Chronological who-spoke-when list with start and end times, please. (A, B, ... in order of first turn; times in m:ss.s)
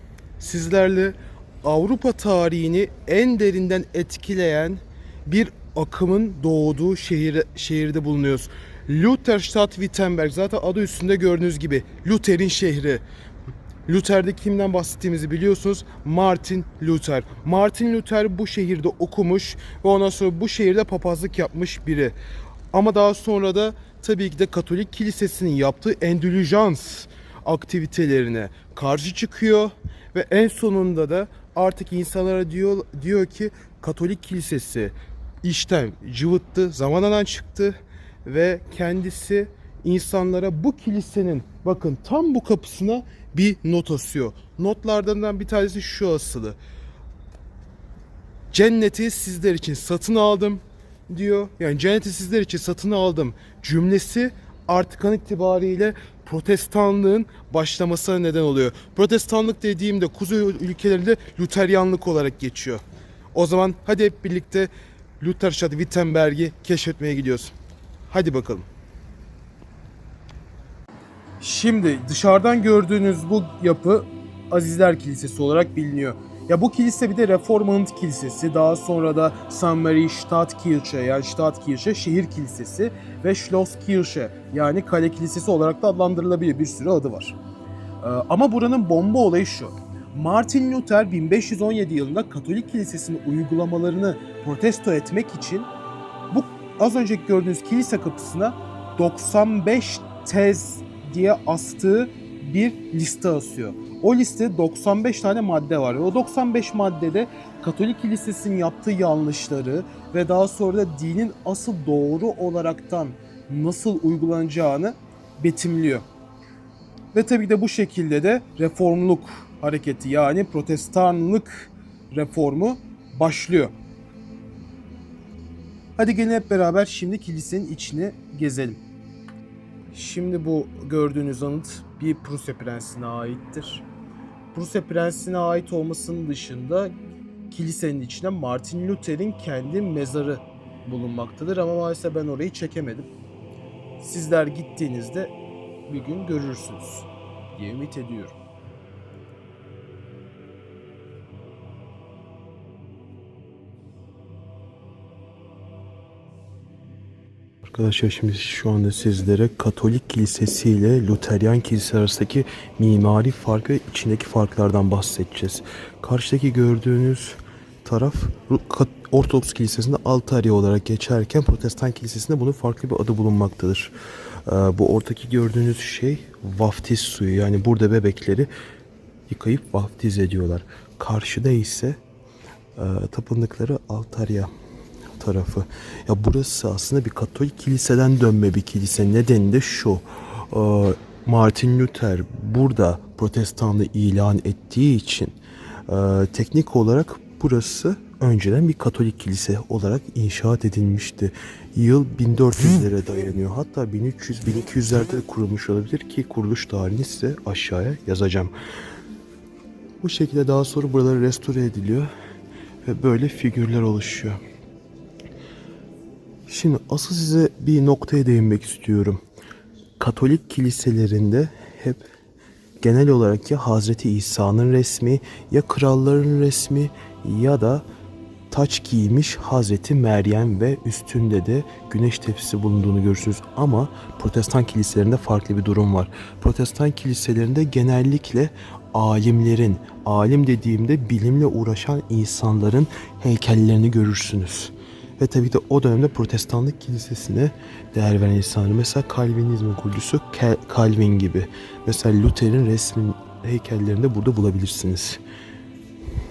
0:00.4-0:13.0 A
0:13.9-0:22.2 A
0:22.7-0:46.6 A
0:48.5-1:02.8 A
1:03.3-1:07.5 A
1:08.1-1:08.6 A
1:11.4-1:27.4 A
1:28.0-1:35.7 A
1:36.3-1:56.0 A
1:57.1-2:03.7 A
2:06.0-2:08.8 A
2:09.9-2:13.8 A
2:14.5-2:16.9 A
2:17.5-2:23.1 A
2:24.0-2:25.3 A
2:25.9-2:28.3 A
2:37.6-2:58.5 A
2:59.3-3:02.0 A
3:02.8-3:04.5 A
3:05.2-3:15.3 A
3:15.9-3:28.5 A
3:30.0-3:32.1 A
3:32.8-3:34.4 A
3:36.5-3:39.2 A
3:40.0-3:42.0 A
3:42.8-3:47.8 A
3:48.5-4:15.2 A